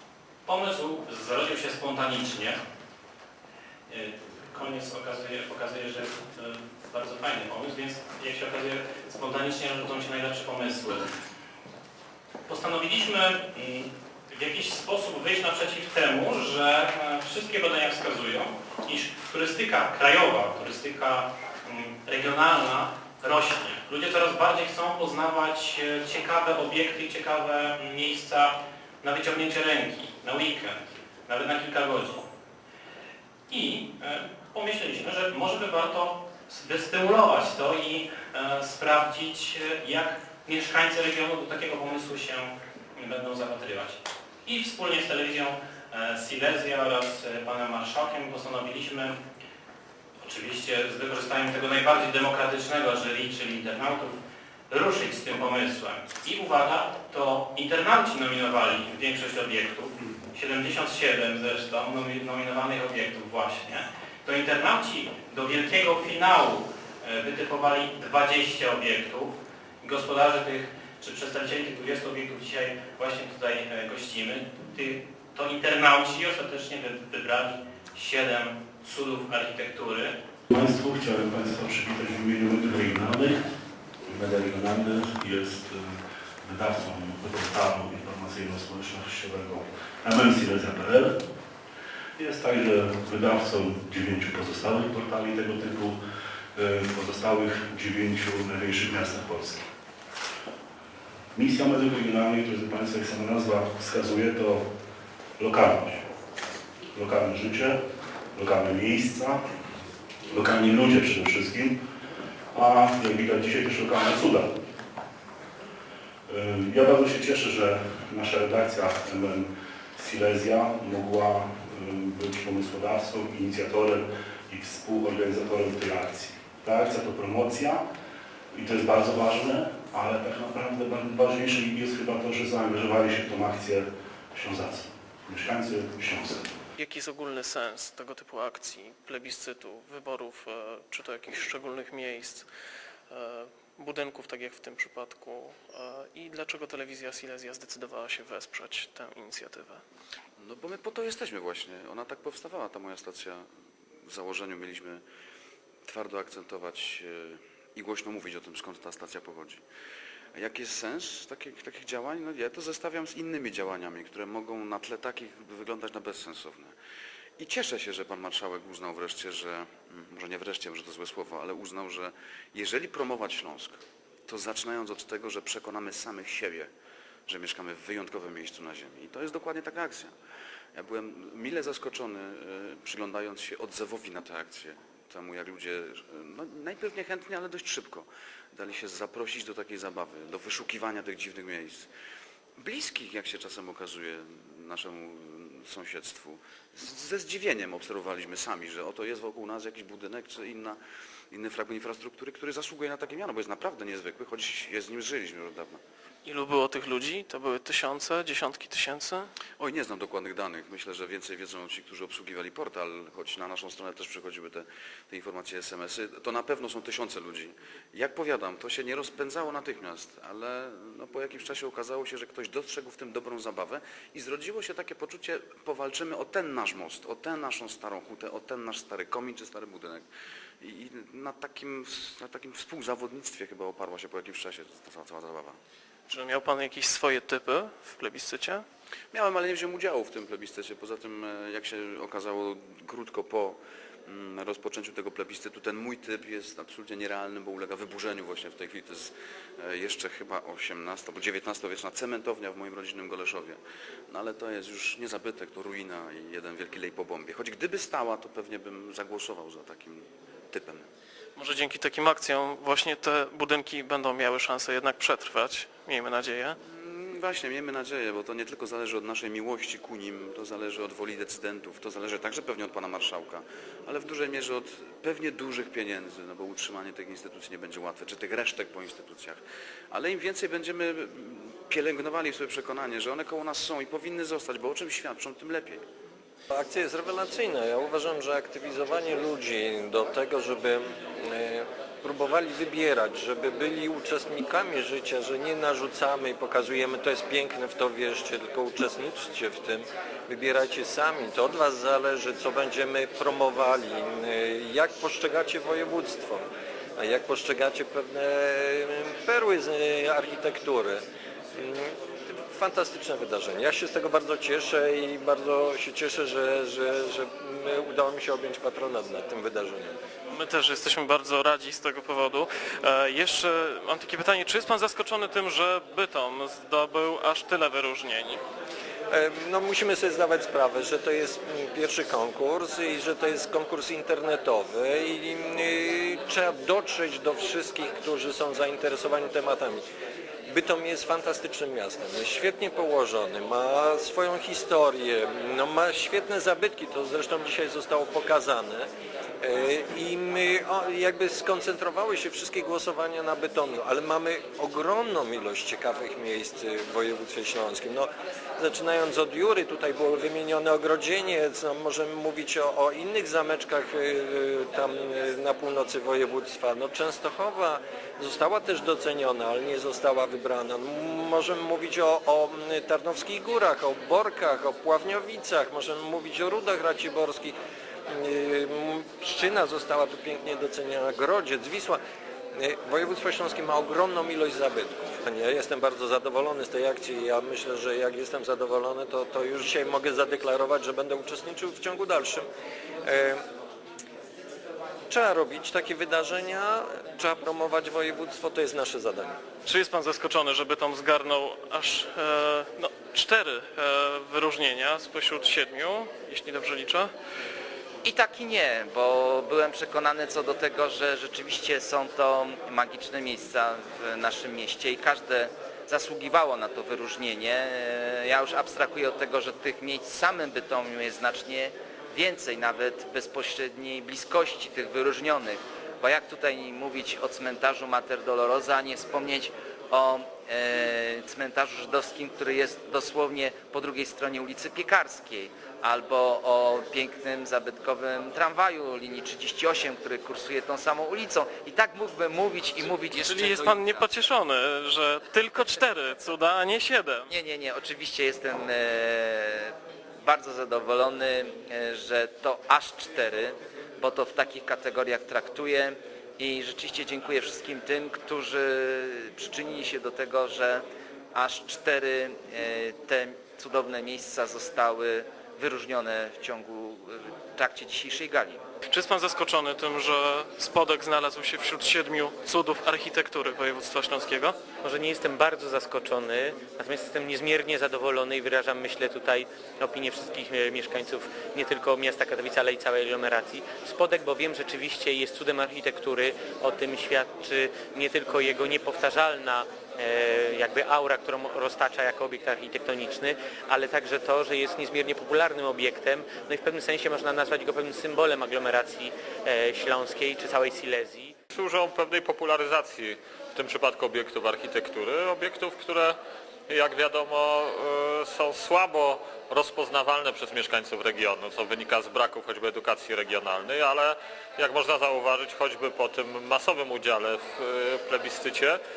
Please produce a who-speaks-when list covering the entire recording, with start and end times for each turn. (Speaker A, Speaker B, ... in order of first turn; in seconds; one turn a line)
Speaker A: 0.5-2.6
Speaker A: 3.9-11.1
Speaker A: 12.5-32.2
Speaker A: 33.5-49.2
Speaker A: 50.2-54.2
Speaker A: 54.7-80.2
Speaker B: 80.5-83.4
Speaker B: 84.1-91.2
Speaker B: 92.2-96.0
Speaker B: 96.5-99.6
Speaker B: 101.3-104.6
Speaker B: 105.4-106.0
Speaker B: 106.9-107.8
Speaker B: 108.3-109.4
Speaker B: 110.3-111.8
Speaker B: 112.5-114.5
Speaker B: 116.3-127.8
Speaker B: 128.5-136.6
Speaker C: 136.8-142.5
Speaker C: 143.1-149.8
Speaker D: 150.4-153.4
Speaker D: 154.1-155.0
Speaker D: 155.9-159.6
Speaker D: 160.4-166.7
Speaker D: 167.4-176.7
Speaker D: 177.3-180.1
Speaker D: 180.8-191.9
Speaker D: 192.6-200.8
Speaker D: 201.3-205.8
Speaker C: 206.3-209.3
Speaker D: 209.6-230.1
Speaker D: 230.6-235.6
Speaker C: 236.1-238.6
Speaker D: 239.1-253.6
Speaker D: 254.1-260.9
Speaker C: 261.4-266.6
Speaker D: 266.6-279.4
Speaker D: 279.9-285.8
Speaker E: 286.5-306.5
Speaker E: 307.0-320.0
Speaker C: 320.3-328.4
Speaker E: 329.1-339.8
Speaker E: 340.5-348.9
Speaker E: 349.4-377.6
Speaker E: 378.1-382.0
Speaker E: 382.5-392.5
Speaker E: 393.1-393.4
Speaker E: 395.1-399.4
Speaker C: 399.6-407.1
Speaker F: 408.0-444.1
Speaker C: 443.1-447.3
Speaker F: 447.3-460.8
Speaker F: 461.3-468.6
Speaker C: 468.9-474.7
Speaker G: 474.8-501.3
Speaker H: 501.5-506.1
Speaker H: 506.7-518.8